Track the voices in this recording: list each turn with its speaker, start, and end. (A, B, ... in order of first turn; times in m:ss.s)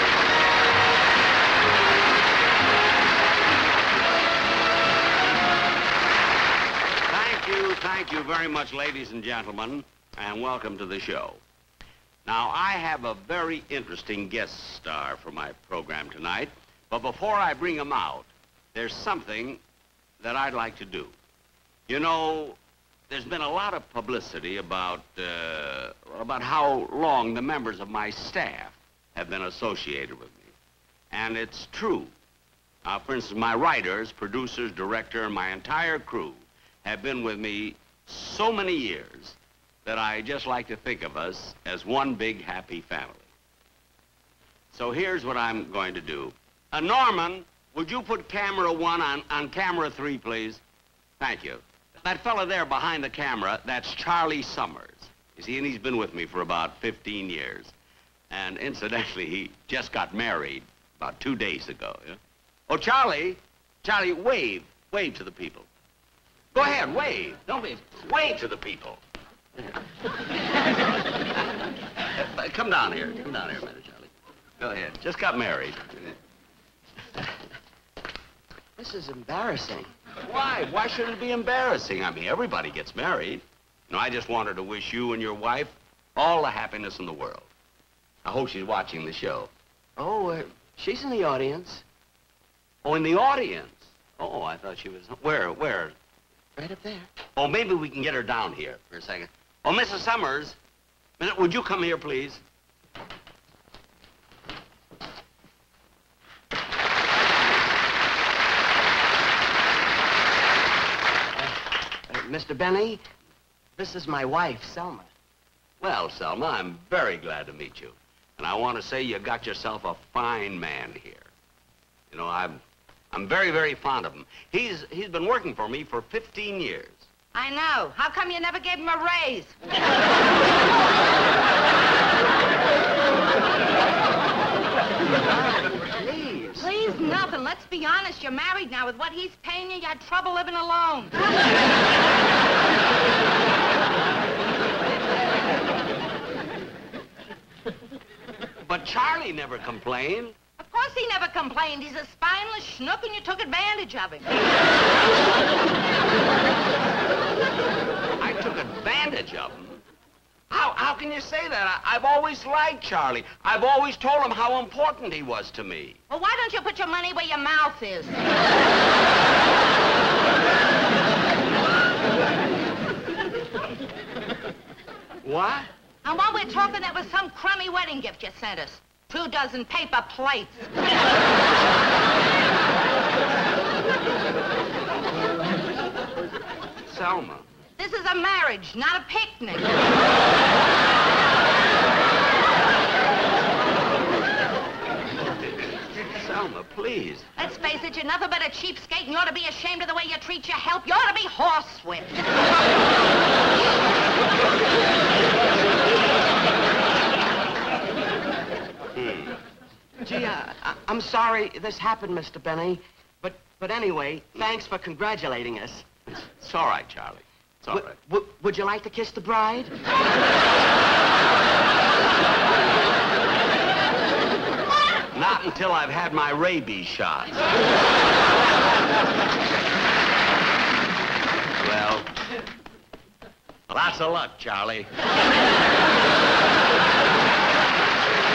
0:07.1-0:11.4 A
0:12.2-0:19.6 A
0:20.2-0:21.1 A
0:21.9-0:22.6 A
0:23.1-0:30.5 A
0:31.1-0:32.1 A
0:32.8-0:43.3 A
0:44.7-0:50.6 A
0:51.2-0:57.7 A
0:58.3-1:05.7 A
1:06.5-1:09.0 A
1:12.1-1:16.1 A
1:18.8-1:19.9 B
1:20.2-1:27.5 A
1:28.2-1:29.5 A
1:30.0-1:31.8 B
1:32.8-1:35.9 A
1:36.6-1:37.1 B
1:37.4-1:40.6 A
1:41.2-1:42.4 A
1:52.1-1:53.0 B
1:53.8-1:55.1 B
1:55.8-2:01.3 A
2:02.1-2:07.0 A
2:07.3-2:09.5 C
2:15.3-2:16.7 A
2:16.6-2:21.2 C
2:28.6-2:30.4 A
2:30.6-2:34.4 C
2:38.2-2:39.8 A
2:40.5-2:46.0 A
2:46.1-2:48.2 C
2:55.2-2:55.7 A
2:56.0-3:00.7 C
3:06.8-3:07.4 A
3:07.8-3:09.8 C
3:15.1-3:17.2 A
3:17.4-3:22.2 C
3:28.9-3:29.4 A
3:30.0-3:35.9 B
3:36.1-3:37.9 A
3:37.7-3:39.7 B
3:45.1-3:47.4 A
3:51.6-3:52.1 A
3:53.7-3:54.9 A